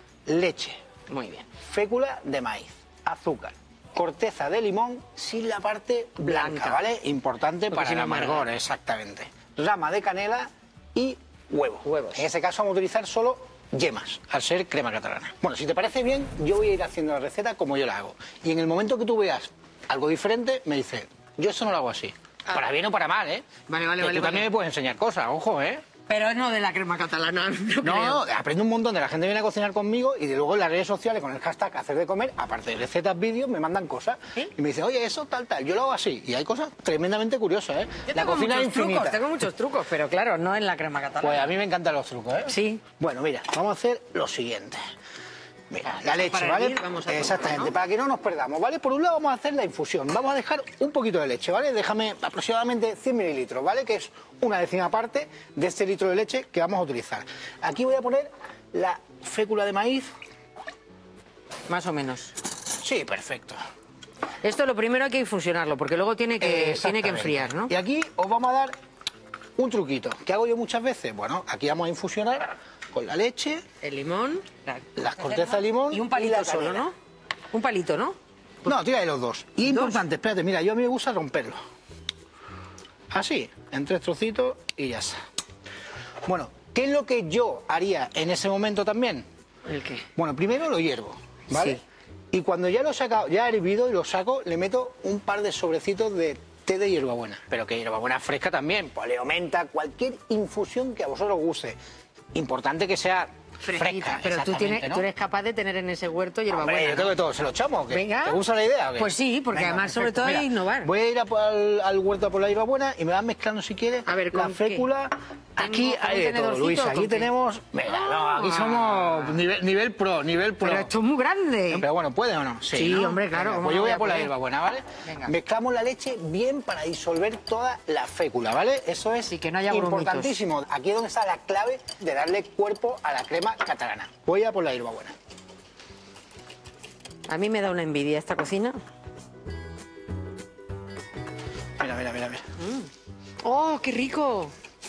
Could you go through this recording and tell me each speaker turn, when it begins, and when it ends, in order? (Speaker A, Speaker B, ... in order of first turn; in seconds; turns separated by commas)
Speaker A: 0.3-0.8, Speaker B: 1.1-1.5, Speaker A: 1.6-23.4, Speaker B: 6.2-6.8, Speaker B: 7.7-8.5, Speaker B: 11.8-12.2, Speaker B: 23.7-24.5, Speaker A: 24.0-25.8, Speaker B: 26.1-28.2, Speaker A: 27.8-39.2, Speaker B: 38.1-41.5, Speaker A: 41.2-44.8, Speaker B: 42.5-42.8, Speaker A: 45.7-60.1, Speaker B: 46.1-47.8, Speaker B: 61.7-62.3, Speaker A: 62.8-63.6, Speaker B: 64.4-67.7, Speaker A: 66.4-68.7, Speaker A: 69.6-73.6, Speaker B: 73.8-77.0, Speaker A: 75.0-76.9, Speaker B: 77.5-78.8, Speaker A: 78.7-81.6, Speaker B: 79.6-80.0, Speaker A: 83.1-85.2, Speaker A: 86.3-89.2, Speaker B: 89.7-90.1, Speaker A: 90.2-91.8, Speaker B: 91.5-91.8, Speaker A: 92.3-101.8, Speaker A: 102.3-105.1, Speaker B: 103.6-107.2, Speaker A: 106.5-120.9, Speaker B: 107.9-108.4, Speaker B: 109.0-110.9, Speaker B: 114.1-114.9, Speaker B: 115.6-117.3, Speaker B: 117.9-119.4, Speaker B: 120.6-121.8, Speaker A: 121.7-135.2, Speaker B: 122.7-124.3, Speaker B: 125.0-125.3, Speaker B: 129.2-130.4, Speaker B: 137.3-138.8, Speaker A: 141.8-142.4, Speaker B: 142.6-142.9, Speaker B: 143.4-144.5